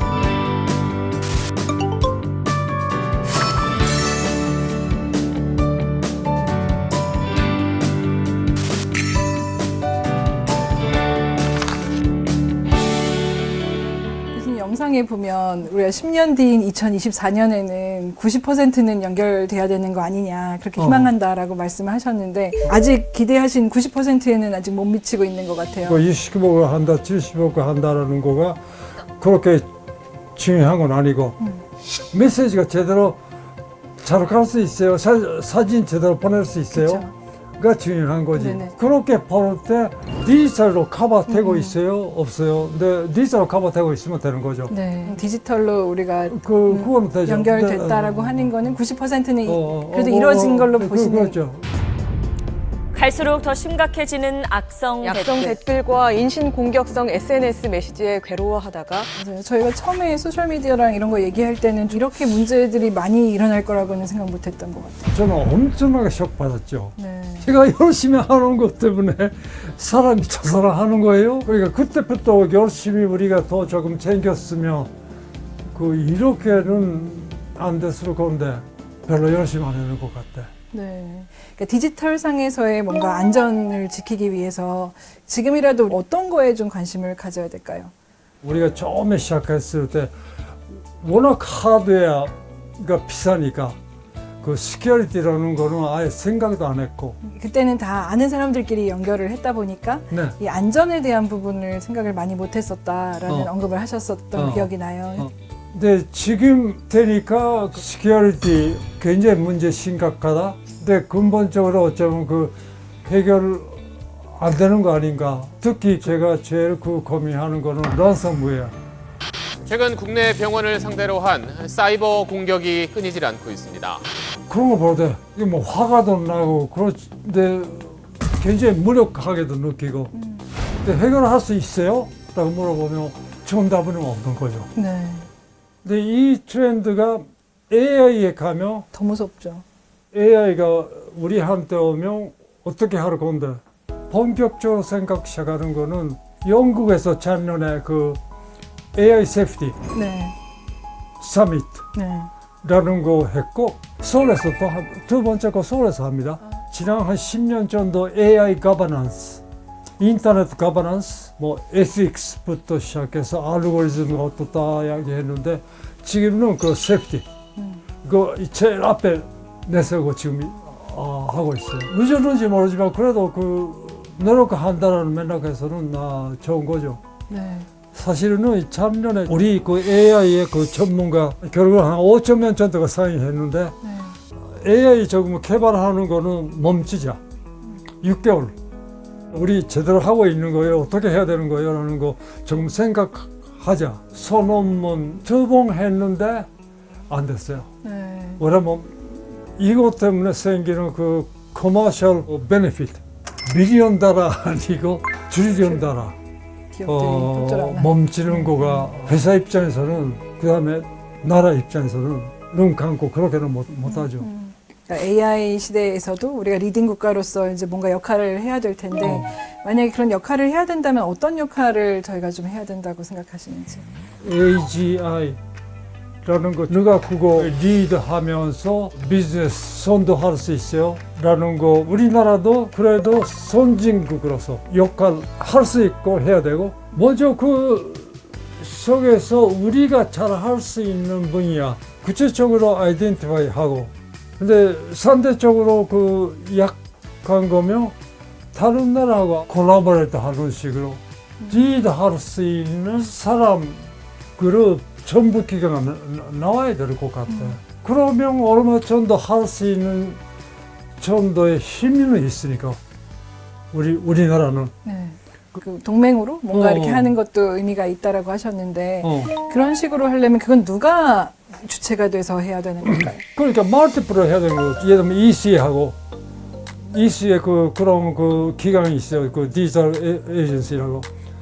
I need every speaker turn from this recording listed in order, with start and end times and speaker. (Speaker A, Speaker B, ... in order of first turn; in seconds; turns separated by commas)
Speaker A: 14.3-26.1, Speaker B: 20.8-21.1, Speaker B: 25.9-28.6, Speaker B: 29.2-29.7, Speaker B: 30.4-31.4, Speaker B: 32.1-33.2, Speaker B: 34.0-37.0, Speaker A: 36.7-37.1, Speaker B: 37.6-44.7, Speaker A: 38.4-38.7, Speaker A: 41.3-41.8, Speaker A: 44.7-51.4, Speaker B: 46.3-48.5, Speaker B: 49.5-51.6, Speaker C: 52.9-55.6, Speaker D: 55.0-59.1, Speaker A: 59.1-65.1, Speaker B: 65.1-74.9, Speaker A: 67.0-67.5, Speaker B: 75.7-80.5, Speaker A: 80.7-87.9, Speaker B: 88.4-90.1, Speaker B: 91.0-93.8, Speaker B: 94.4-97.2, Speaker A: 97.2-105.3, Speaker B: 100.1-100.4, Speaker B: 104.3-118.7, Speaker E: 119.7-124.0, Speaker B: 124.5-130.1, Speaker A: 130.2-130.4, Speaker B: 130.8-134.7, Speaker A: 134.8-135.3, Speaker B: 135.8-138.9, Speaker A: 138.9-139.7, Speaker B: 140.1-148.2, Speaker B: 148.9-149.8, Speaker A: 149.9-150.3, Speaker B: 151.2-151.9, Speaker A: 151.9-152.3, Speaker B: 152.6-159.4, Speaker B: 160.0-167.2, Speaker A: 167.6-167.8, Speaker B: 168.0-177.0, Speaker A: 177.3-177.7, Speaker B: 177.9-183.8, Speaker A: 183.9-184.2, Speaker B: 184.4-187.2, Speaker B: 188.0-188.6, Speaker B: 189.3-196.5, Speaker B: 197.1-197.7, Speaker A: 197.8-198.4, Speaker B: 198.4-206.2, Speaker A: 206.7-208.9, Speaker B: 206.9-214.3, Speaker A: 213.9-223.9, Speaker B: 219.0-219.3, Speaker B: 224.2-225.4, Speaker B: 226.2-247.9, Speaker B: 248.5-260.2, Speaker A: 257.3-257.6, Speaker B: 261.0-262.8, Speaker B: 263.7-264.7, Speaker A: 264.8-273.2, Speaker B: 266.5-267.1, Speaker B: 269.0-269.3, Speaker B: 272.9-276.0, Speaker B: 276.8-281.1